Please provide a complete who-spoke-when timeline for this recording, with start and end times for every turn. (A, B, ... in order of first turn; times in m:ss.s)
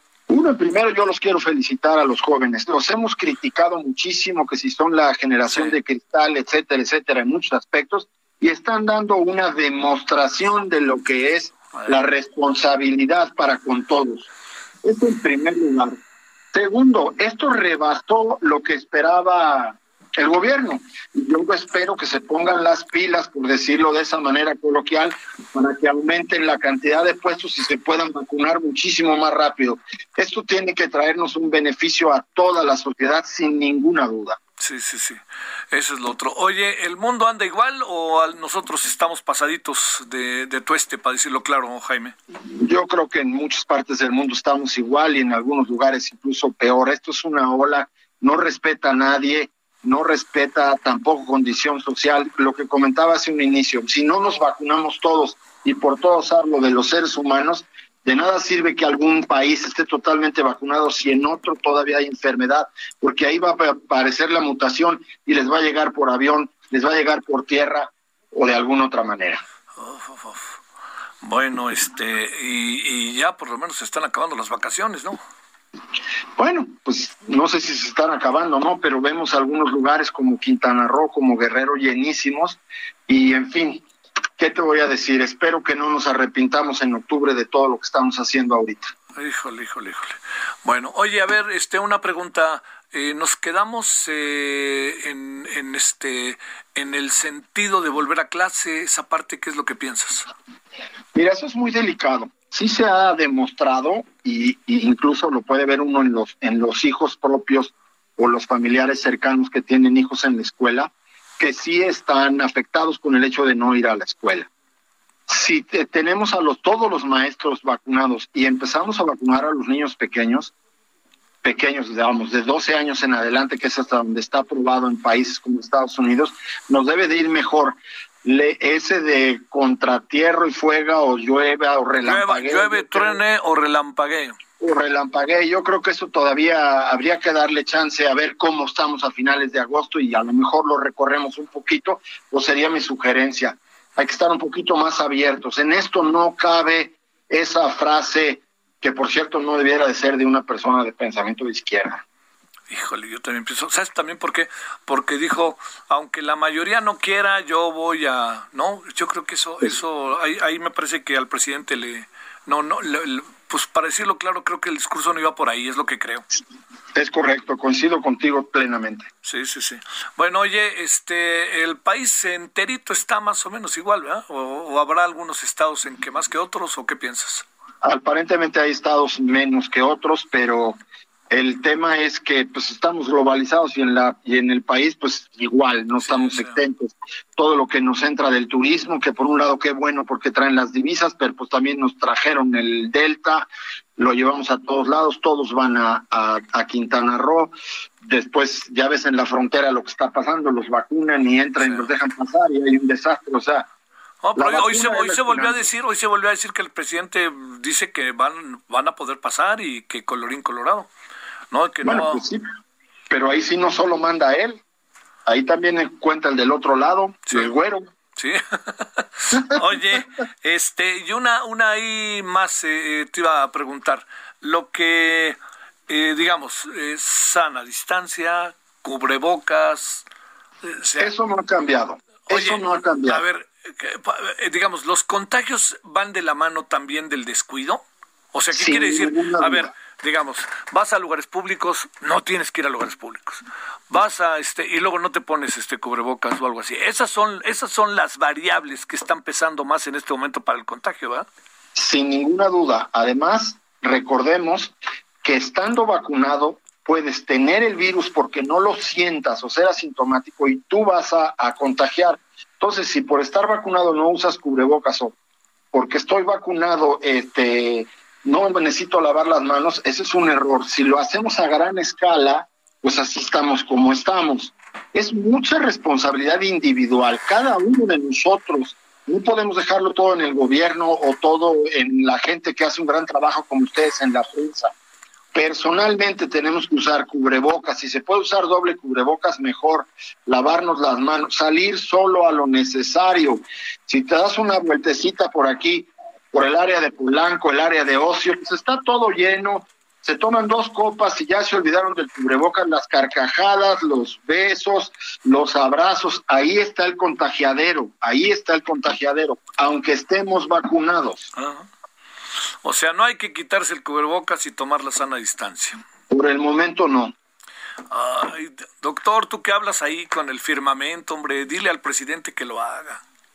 0:00.3-0:14.3 A
0:05.4-0:05.8 B
0:11.7-0:12.0 B
0:14.8-0:15.9 A
0:16.5-0:34.4 A
0:34.6-0:42.1 B
0:42.6-1:09.4 A
1:09.8-1:10.5 B
1:11.2-1:15.2 B
1:16.4-1:23.8 A
1:24.4-1:28.9 A
1:29.2-1:40.3 B
1:41.1-1:54.5 A
1:55.3-2:00.5 A
2:01.4-2:13.2 A
2:12.0-2:14.4 B
2:14.6-2:32.0 A
2:32.7-2:46.2 B
2:46.9-2:49.1 A
2:49.2-2:57.5 B
2:57.8-3:23.7 A
3:06.0-3:06.6 B
3:21.6-3:21.9 B
3:24.2-3:30.9 B
3:24.4-3:25.7 A
3:31.5-3:32.2 B
3:31.8-3:32.4 A
3:33.1-3:34.6 A
3:35.2-3:37.9 A
3:38.2-3:45.4 B
3:45.9-3:50.0 B
3:50.6-3:51.1 B
3:51.0-3:53.2 A
3:52.3-4:11.3 B
3:58.5-3:59.7 A
4:11.7-4:25.2 A
4:25.7-4:44.7 A
4:45.3-5:11.3 A
5:11.4-5:11.6 B
5:12.6-5:15.8 B
5:16.1-5:17.1 A
5:17.9-5:23.0 B